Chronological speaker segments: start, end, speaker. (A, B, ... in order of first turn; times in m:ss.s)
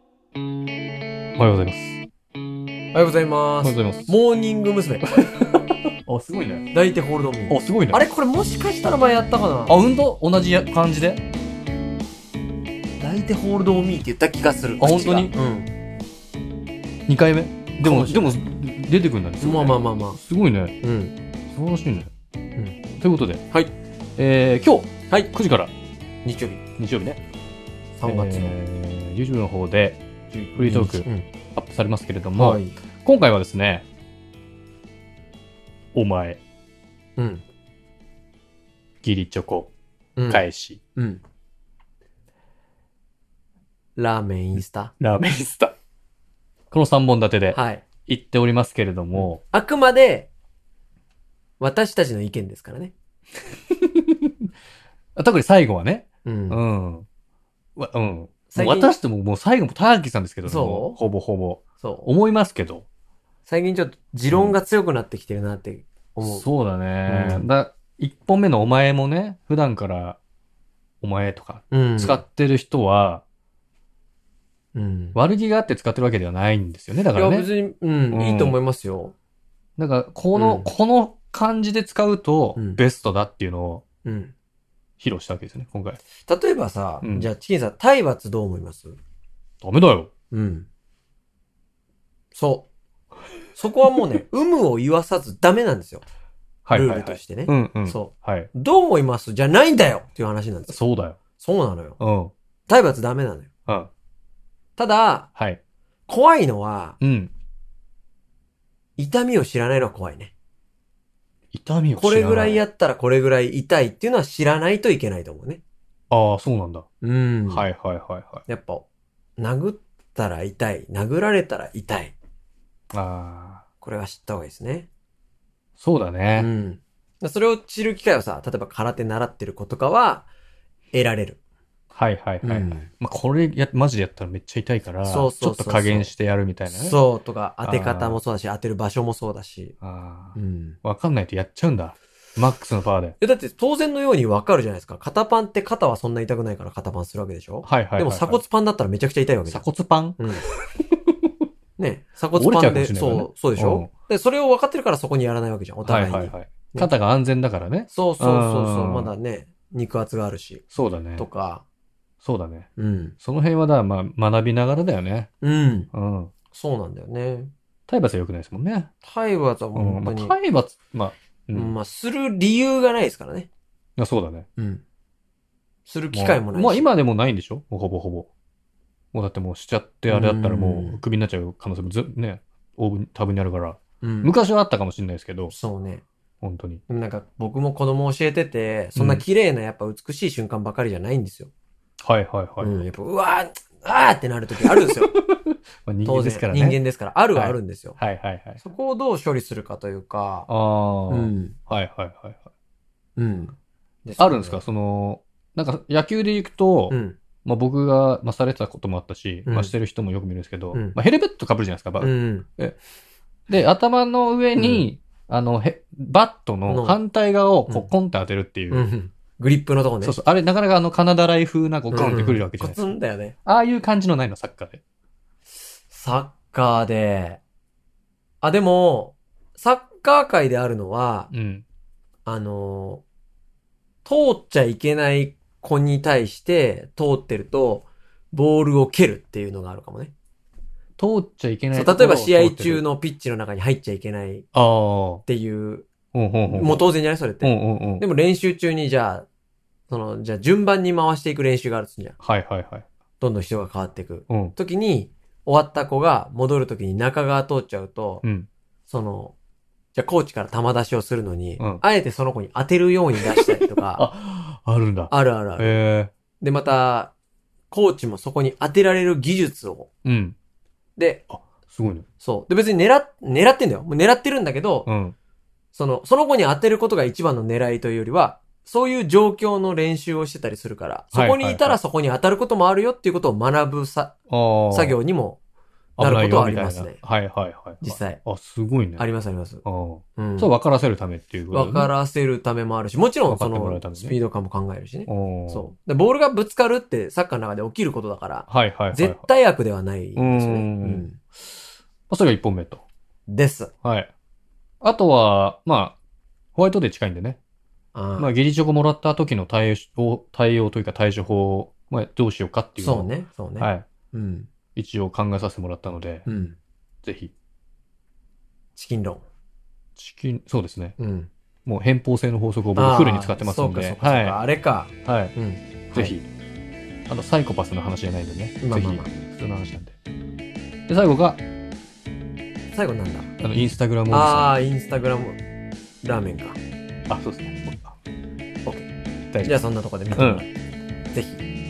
0:01.4-0:02.0 A
0:02.9-0:05.3 B
0:03.6-0:04.1 A
0:05.0-0:06.7 A
0:06.7-0:09.8 B
0:07.5-0:08.0 A
0:09.7-0:11.2 A
0:13.0-0:15.7 B
0:14.8-0:15.3 A
0:17.1-0:20.8 A
0:17.8-0:18.4 B
0:19.4-0:20.2 B
0:20.8-0:21.1 B
0:21.5-0:22.1 A
0:23.0-0:23.4 A
0:24.2-0:25.7 A
0:26.2-0:26.6 B
0:26.8-0:27.2 A
0:28.0-0:28.5 B
0:28.0-0:30.0 A
0:30.3-0:31.3 B
0:30.6-0:33.8 A
0:32.3-0:32.7 B
0:35.9-0:36.4 A
0:37.2-0:37.4 B
0:39.0-0:39.7 A
0:40.2-0:40.4 B
0:40.3-0:40.8 A
0:41.0-0:41.2 B
0:44.0-0:44.9 B
0:45.0-0:45.7 A
0:46.7-0:49.4 A
0:47.5-0:47.8 B
0:49.2-0:50.3 B
0:51.6-0:52.9 B
0:53.8-0:54.3 A
0:55.2-0:57.0 A
0:56.2-0:56.6 B
0:57.8-1:02.8 A
0:58.5-0:58.9 B
1:00.4-1:01.0 B
1:01.8-1:02.1 B
1:03.5-1:06.4 B
1:04.3-1:04.6 A
1:06.2-1:10.2 A
1:07.0-1:07.5 B
1:11.0-1:13.2 A
1:11.7-1:12.2 B
1:14.7-1:15.2 B
1:15.1-1:17.4 A
1:17.1-1:19.1 B
1:18.1-1:18.6 A
1:19.8-1:23.8 A
1:20.3-1:20.7 B
1:22.6-1:22.8 B
1:24.0-1:24.3 B
1:25.0-1:26.0 A
1:26.2-1:29.0 B
1:27.0-1:27.3 A
1:29.6-1:30.1 A
1:30.3-1:30.7 B
1:32.3-1:32.7 B
1:33.6-1:36.0 B
1:36.6-1:38.5 A
1:36.7-1:40.8 B
1:40.7-1:41.2 A
1:41.4-1:42.0 B
1:42.0-1:42.3 A
1:42.7-1:43.5 B
1:44.8-1:45.3 B
1:46.1-1:47.0 B
1:47.0-1:47.3 A
1:49.0-1:50.3 B
1:51.5-1:52.6 A
1:52.0-1:55.6 B
1:56.1-1:56.8 A
1:57.0-1:57.7 B
1:57.5-1:58.4 A
1:58.5-1:58.9 B
1:59.4-2:02.1 B
2:02.9-2:03.6 A
2:03.8-2:04.9 B
2:05.8-2:06.5 A
2:06.4-2:10.3 B
2:10.9-2:11.4 B
2:11.9-2:17.0 A
2:12.4-2:12.9 B
2:15.0-2:16.1 B
2:16.7-2:19.8 B
2:17.6-2:18.2 A
2:19.8-2:23.2 A
2:20.4-2:20.8 B
2:23.2-2:29.6 B
2:27.6-2:28.4 A
2:29.5-2:30.3 A
2:30.2-2:30.4 B
2:31.8-2:36.9 B
2:32.3-2:33.9 A
2:35.8-2:39.1 A
2:37.9-2:40.6 B
2:40.7-2:41.2 A
2:41.2-2:41.6 B
2:42.2-2:42.7 A
2:42.8-2:43.2 B
2:43.2-2:45.3 A
2:45.4-2:45.9 B
2:45.9-2:46.3 A
2:46.5-2:47.5 B
2:47.9-2:48.9 A
2:49.0-2:50.4 B
2:49.7-2:51.7 A
2:51.5-2:53.5 B
2:54.0-2:54.5 A
2:54.6-2:54.8 B
2:55.8-2:56.9 B
2:56.1-2:58.3 A
2:59.1-3:05.5 A
3:00.1-3:01.0 B
3:04.0-3:04.3 B
3:05.5-3:06.0 B
3:06.4-3:06.8 A
3:06.9-3:11.5 B
3:08.9-3:09.2 A
3:12.0-3:12.8 A
3:12.6-3:15.1 B
3:15.0-3:16.8 A
3:16.0-3:18.0 B
3:17.3-3:18.6 A
3:18.6-3:20.5 B
3:20.5-3:22.4 A
3:21.1-3:21.6 B
3:23.2-3:24.6 B
3:24.2-3:32.8 A
3:26.9-3:27.2 B
3:29.4-3:29.7 B
3:32.0-3:32.5 B
3:33.5-3:38.8 A
3:34.6-3:34.9 B
3:36.7-3:37.0 B
3:38.7-3:40.2 B
3:40.0-3:42.9 A
3:41.9-3:43.4 B
3:43.4-3:44.8 A
3:45.9-3:47.4 B
3:48.4-3:51.3 B
3:51.3-3:51.6 A
3:52.2-3:53.0 B
3:54.0-4:00.1 B
4:01.0-4:02.8 A
4:01.7-4:04.5 B
4:04.5-4:05.2 A
4:05.2-4:05.9 B
4:06.1-4:06.8 A
4:06.5-4:09.3 B
4:07.4-4:08.0 A
4:09.9-4:12.2 B
4:12.2-4:12.8 A
4:13.2-4:18.2 B
4:14.3-4:14.5 A
4:18.2-4:18.5 A
4:18.9-4:19.3 B
4:19.9-4:24.0 B
4:23.2-4:26.1 A
4:25.1-4:25.8 B
4:26.4-4:27.1 B
4:27.7-4:29.9 B
4:30.0-4:30.4 A
4:31.0-4:31.2 B
4:31.3-4:32.0 A
4:32.2-4:34.9 B
4:34.8-4:35.2 A
4:35.7-4:44.2 B
4:41.1-4:41.8 A
4:44.3-4:45.0 A
4:44.7-4:45.4 B
4:46.0-4:49.0 A
4:46.0-4:47.0 B
4:47.8-4:48.2 B
4:49.0-4:49.6 B
4:49.6-4:51.9 A
4:50.2-4:50.5 B
4:51.5-5:01.2 B
4:53.3-4:54.1 A
4:55.1-4:55.7 A
4:58.5-4:59.3 A
5:00.2-5:01.5 A
5:02.1-5:02.8 A
5:03.3-5:03.7 B
5:03.8-5:04.1 A
5:04.8-5:06.0 A
5:06.5-5:07.4 A
5:07.9-5:08.3 B
5:08.2-5:13.9 A
5:12.8-5:14.5 B
5:14.7-5:16.2 A
5:16.2-5:16.6 B
5:17.0-5:17.3 A
5:18.8-5:19.2 B
5:20.0-5:20.9 A
5:21.0-5:21.3 B
5:21.6-5:24.4 A
5:22.7-5:26.1 B
5:25.0-5:25.3 A
5:25.9-5:26.2 A
5:27.1-5:30.0 A
5:28.6-5:29.1 B
5:30.9-5:31.4 A
5:32.7-5:33.3 B
5:33.4-5:34.5 A
5:34.1-5:35.4 B
5:36.0-5:36.6 B
5:37.1-5:38.0 A
5:39.4-5:40.5 B
5:40.1-5:40.4 A
5:41.1-5:41.4 B